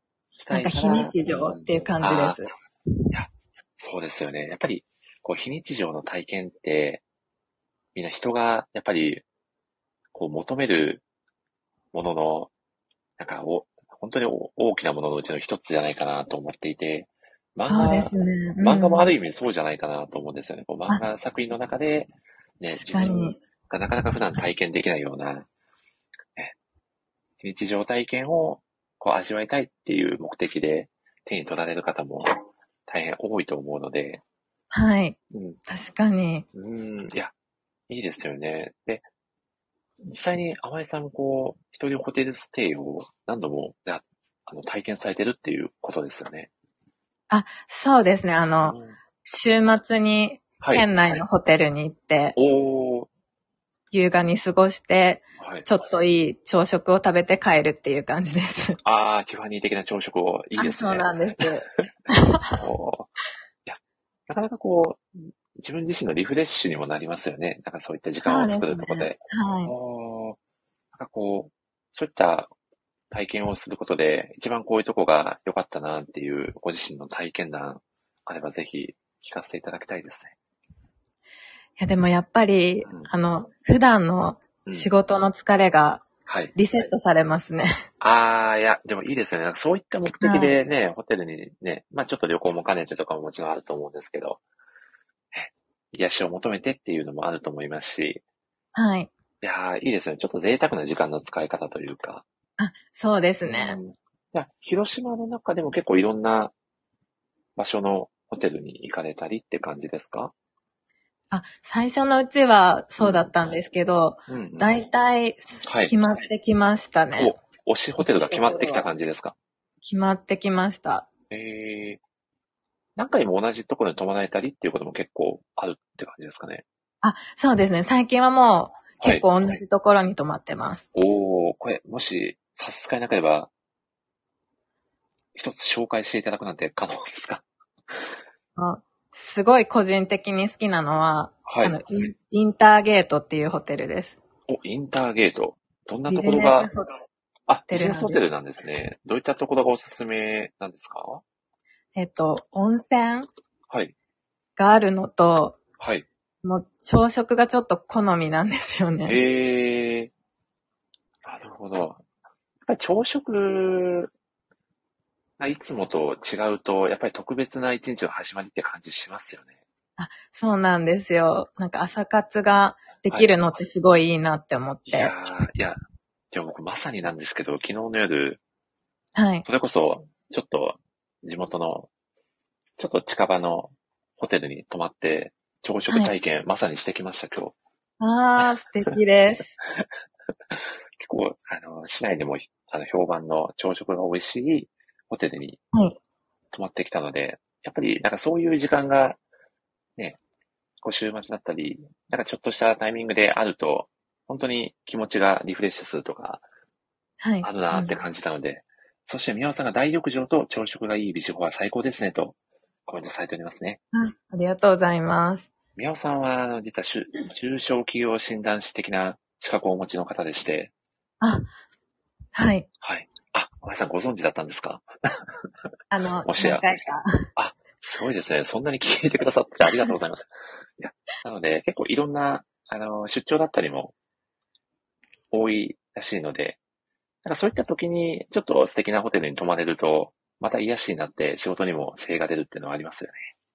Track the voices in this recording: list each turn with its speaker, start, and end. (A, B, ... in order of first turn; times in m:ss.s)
0:00.4-0:02.4 A
0:00.5-0:02.5 B
0:03.1-0:07.0 A
0:07.9-0:09.2 A
0:10.1-0:11.0 A
0:11.9-0:12.5 A
0:13.2-0:25.5 A
0:17.6-0:19.1 B
0:22.7-0:23.4 B
0:27.4-0:34.2 A
0:34.7-0:36.4 B
0:35.3-0:35.6 A
0:36.5-0:37.3 A
0:37.9-0:39.0 A
0:40.0-0:46.5 A
0:47.3-0:52.4 B
0:48.6-0:49.0 A
0:50.6-0:50.9 A
0:52.4-0:53.1 A
0:53.9-0:58.8 B
0:55.4-0:55.6 A
0:58.8-1:01.9 A
1:00.6-1:02.5 B
1:02.6-1:03.1 A
1:03.6-1:10.4 A
1:08.2-1:09.7 B
1:10.9-1:12.5 A
1:13.1-1:20.3 A
1:21.8-1:26.0 B
1:22.8-1:23.1 A
1:26.2-1:26.5 A
1:26.5-1:27.8 B
1:28.0-1:34.4 A
1:30.2-1:30.5 B
1:35.3-1:38.2 A
1:38.7-1:39.1 B
1:39.4-1:42.2 A
1:42.6-1:43.8 B
1:43.4-1:46.5 A
1:47.6-1:50.3 A
1:51.3-1:57.3 B
1:53.0-1:53.3 A
1:54.3-1:54.8 A
1:55.6-1:55.9 A
1:57.2-1:59.3 A
1:58.0-1:58.8 B
1:59.8-2:01.0 B
2:01.3-2:02.0 A
2:03.0-2:06.6 A
2:07.0-2:10.8 B
2:10.9-2:13.5 A
2:15.3-2:18.0 A
2:18.6-2:24.2 B
2:21.4-2:21.8 A
2:24.5-2:26.7 A
2:26.1-2:26.9 B
2:27.5-2:31.2 A
2:27.7-2:28.2 B
2:32.0-2:33.3 B
2:33.7-2:33.9 A
2:34.6-2:35.6 B
2:35.8-2:36.0 A
2:36.4-2:39.2 B
2:39.0-2:40.1 A
2:41.2-2:42.0 A
2:42.6-2:44.1 A
2:45.4-2:49.5 A
2:50.0-2:55.1 B
2:54.9-2:55.8 A
2:56.3-2:58.4 A
2:59.2-2:59.4 B
2:59.4-3:01.9 A
3:02.8-3:07.5 A
3:08.0-3:09.5 B
3:10.5-3:15.6 A
3:15.7-3:16.0 B
3:16.5-3:19.2 A
3:20.8-3:26.4 A
3:27.2-3:28.0 B
3:27.4-3:33.8 A
3:33.9-3:35.5 B
3:35.8-3:40.7 A
3:41.2-3:41.5 B
3:42.3-3:42.7 B
3:42.8-3:45.3 A
3:45.9-3:47.1 B
3:46.2-3:46.7 A
3:47.4-3:53.9 A
3:55.3-3:56.6 A
3:57.2-4:03.2 A